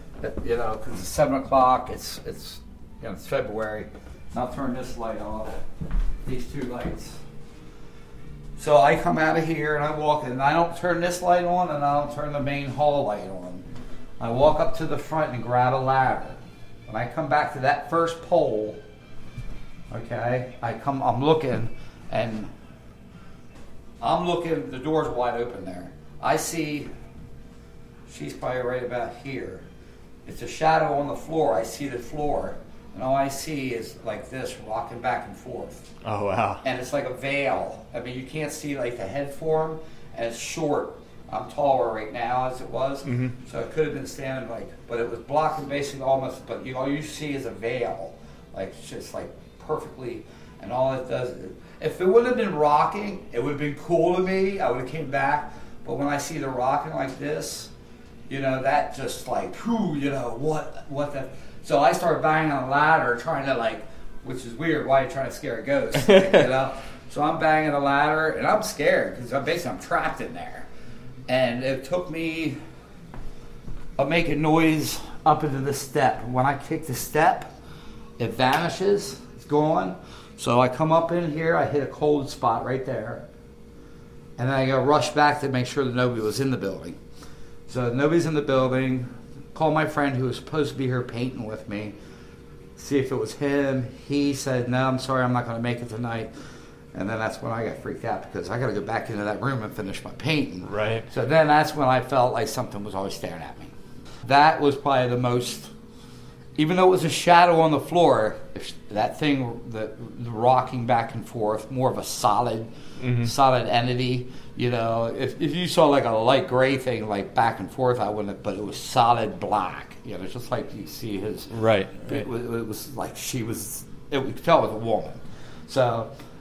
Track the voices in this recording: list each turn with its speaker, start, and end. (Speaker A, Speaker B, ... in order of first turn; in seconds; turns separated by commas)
Speaker A: 0.2-5.6, Speaker A: 6.2-7.2, Speaker A: 8.6-13.6, Speaker A: 14.2-18.8, Speaker A: 19.9-22.5, Speaker A: 24.0-26.9, Speaker A: 28.1-29.6, Speaker A: 30.2-35.8, Speaker B: 36.0-36.6, Speaker A: 36.6-57.7, Speaker B: 43.0-43.3, Speaker A: 58.3-70.7, Speaker A: 71.3-72.6, Speaker A: 74.0-77.5, Speaker A: 78.2-83.2, Speaker A: 84.4-87.0, Speaker A: 87.7-91.9, Speaker A: 92.8-96.3, Speaker A: 96.9-103.7, Speaker B: 100.7-101.0, Speaker A: 104.2-105.7, Speaker A: 106.6-126.1, Speaker B: 113.0-113.3, Speaker B: 121.5-122.2